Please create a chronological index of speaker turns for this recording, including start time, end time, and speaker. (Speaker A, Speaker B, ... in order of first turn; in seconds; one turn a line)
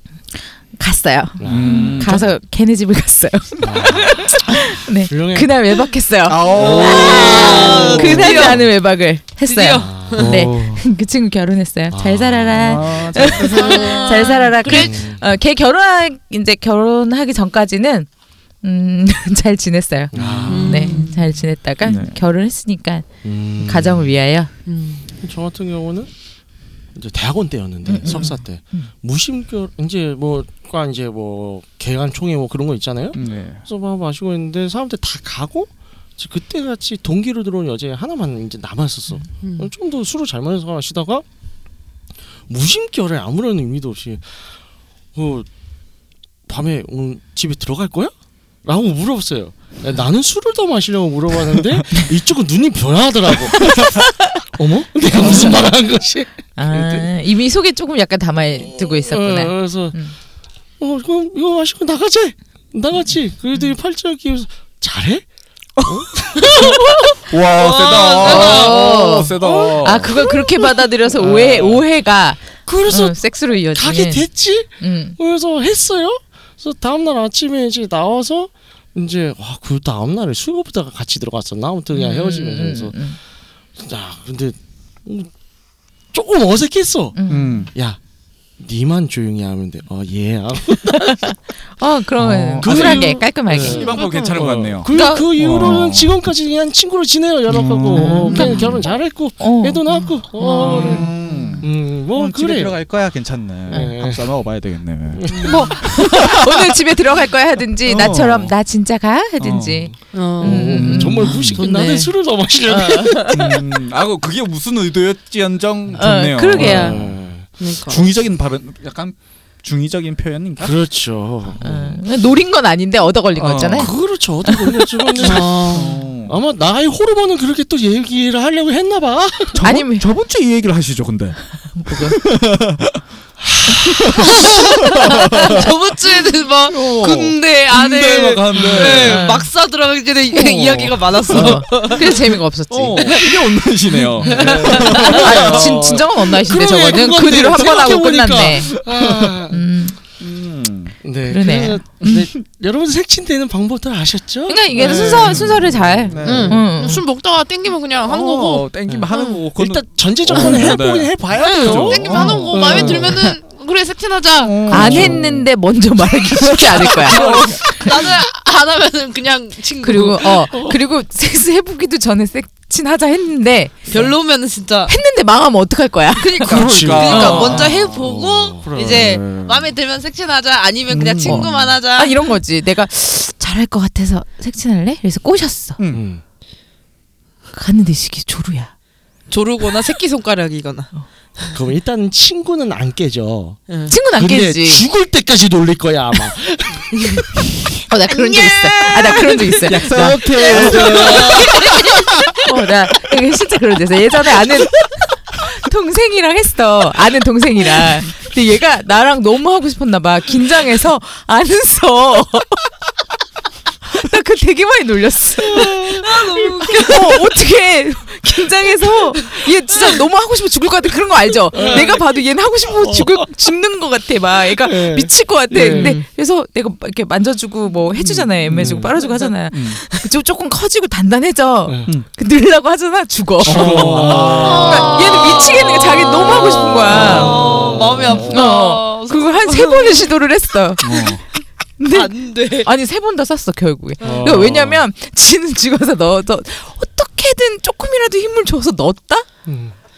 Speaker A: 0.8-18.1
Speaker B: 1.4-2.2
Speaker C: 1.4-2.2
Speaker D: 1.7-2.0
Speaker B: 3.6-5.5
Speaker C: 6.3-8.6
Speaker D: 6.5-8.7
Speaker B: 7.7-8.6
Speaker D: 9.4-10.3
Speaker B: 9.7-10.4
Speaker C: 10.2-10.9
Speaker B: 11.9-13.3
Speaker C: 12.5-14.3
Speaker D: 13.3-15.0
Speaker B: 14.6-15.2
Speaker A: 18.6-24.5
Speaker B: 20.1-21.1
Speaker C: 20.2-20.4
Speaker D: 20.5-21.4
Speaker C: 21.8-22.2
Speaker B: 23.2-24.1
Speaker D: 24.6-25.1
Speaker B: 25.2-26.1
Speaker B: 26.9-41.2
Speaker A: 27.8-28.9
Speaker D: 28.1-28.4
Speaker C: 33.1-33.6
Speaker D: 39.4-39.7
Speaker B: 42.5-44.5
Speaker B: 45.1-45.5
Speaker B: 46.5-48.1
Speaker B: 48.6-57.1
Speaker A: 53.7-54.0
Speaker A: 55.1-55.6
Speaker A: 56.6-60.1
Speaker B: 58.6-60.0
Speaker B: 60.8-65.3
Speaker B: 65.8-66.6
Speaker C: 67.2-70.3
Speaker D: 67.5-69.7
Speaker A: 68.2-74.3
Speaker B: 71.1-71.8
Speaker B: 72.6-83.0
Speaker A: 74.8-75.2
Speaker A: 81.9-83.2
Speaker B: 83.8-85.3
Speaker B: 86.1-87.2
Speaker A: 87.2-87.7
Speaker C: 87.3-87.7
Speaker B: 87.7-88.0
Speaker B: 88.6-91.3
Speaker A: 90.9-94.0
Speaker C: 92.2-96.1
Speaker B: 92.6-101.1
Speaker D: 93.7-94.4
Speaker A: 94.9-95.3
Speaker C: 97.5-98.8
Speaker A: 97.9-98.8
Speaker A: 99.4-101.5
Speaker D: 99.9-101.1
Speaker C: 100.6-106.7
Speaker B: 101.6-102.8
Speaker B: 103.7-104.3
Speaker B: 105.1-105.7
Speaker A: 105.4-111.6
Speaker C: 107.8-108.6
Speaker C: 109.4-109.9
Speaker D: 110.1-112.1
Speaker B: 110.4-113.4
Speaker C: 110.7-111.6
Speaker A: 112.7-113.3
Speaker D: 112.8-113.3
Speaker C: 113.3-117.2
Speaker A: 116.0-117.0
Speaker B: 116.5-117.5
Speaker D: 117.6-118.1
Speaker C: 117.8-120.7
Speaker B: 120.6-121.7
Speaker C: 121.6-122.0
Speaker A: 121.6-123.9
Speaker C: 123.3-123.9
Speaker B: 123.7-129.6
Speaker A: 124.4-125.5
Speaker C: 125.2-126.4
Speaker C: 129.5-133.0
Speaker A: 129.6-130.1
Speaker A: 131.7-132.2
Speaker C: 133.7-135.7
Speaker D: 134.8-142.4
Speaker C: 136.7-139.3
Speaker A: 138.5-139.5
Speaker C: 140.3-142.1
Speaker A: 141.3-143.2
Speaker C: 142.7-145.9
Speaker D: 143.0-143.4
Speaker A: 144.1-148.7
Speaker D: 144.2-145.4
Speaker B: 145.0-149.6
Speaker C: 148.5-149.4
Speaker A: 149.5-150.0
Speaker C: 150.2-151.0
Speaker B: 151.0-155.4
Speaker A: 151.3-151.8
Speaker C: 152.0-152.3
Speaker A: 154.5-157.0
Speaker C: 154.7-156.6
Speaker D: 154.8-155.3
Speaker D: 156.2-159.4
Speaker B: 156.2-156.6
Speaker C: 158.0-163.3
Speaker B: 158.9-163.3
Speaker D: 160.3-160.8
Speaker D: 161.3-165.1
Speaker C: 164.4-165.5
Speaker A: 164.7-167.9
Speaker B: 164.7-165.2
Speaker D: 166.3-170.7
Speaker C: 166.9-168.1
Speaker A: 169.8-174.0
Speaker B: 170.5-170.8
Speaker D: 173.9-175.0
Speaker A: 174.9-177.6
Speaker D: 176.3-182.3
Speaker C: 176.4-179.7
Speaker B: 176.5-179.2
Speaker C: 180.9-181.5
Speaker A: 181.2-185.8
Speaker C: 185.8-186.0
Speaker B: 185.9-186.2
Speaker A: 187.5-188.7
Speaker D: 189.3-191.6
Speaker B: 191.5-196.9
Speaker D: 193.7-193.9
Speaker A: 193.9-194.8
Speaker D: 196.9-197.2
Speaker A: 197.9-200.4
Speaker D: 198.1-199.7
Speaker C: 199.6-202.3
Speaker D: 200.3-202.3
Speaker B: 200.4-201.4
Speaker A: 202.4-212.7
Speaker A: 213.9-237.5
Speaker B: 215.5-216.0
Speaker D: 215.7-217.4
Speaker D: 219.1-219.5
Speaker B: 221.5-222.0
Speaker D: 221.5-222.0
Speaker B: 222.8-223.2
Speaker B: 224.6-226.0
Speaker D: 225.7-226.0
Speaker C: 228.0-228.9
Speaker B: 228.5-229.0
Speaker C: 229.5-229.8
Speaker B: 231.7-231.9
Speaker B: 233.4-235.3
Speaker C: 233.4-235.2
Speaker D: 234.3-240.1
Speaker B: 236.4-238.4
Speaker C: 236.9-238.4
Speaker A: 238.1-241.2
Speaker C: 240.8-241.2
Speaker A: 241.8-249.3
Speaker D: 241.9-242.7
Speaker B: 244.0-244.8
Speaker D: 244.0-244.3
Speaker B: 249.4-249.8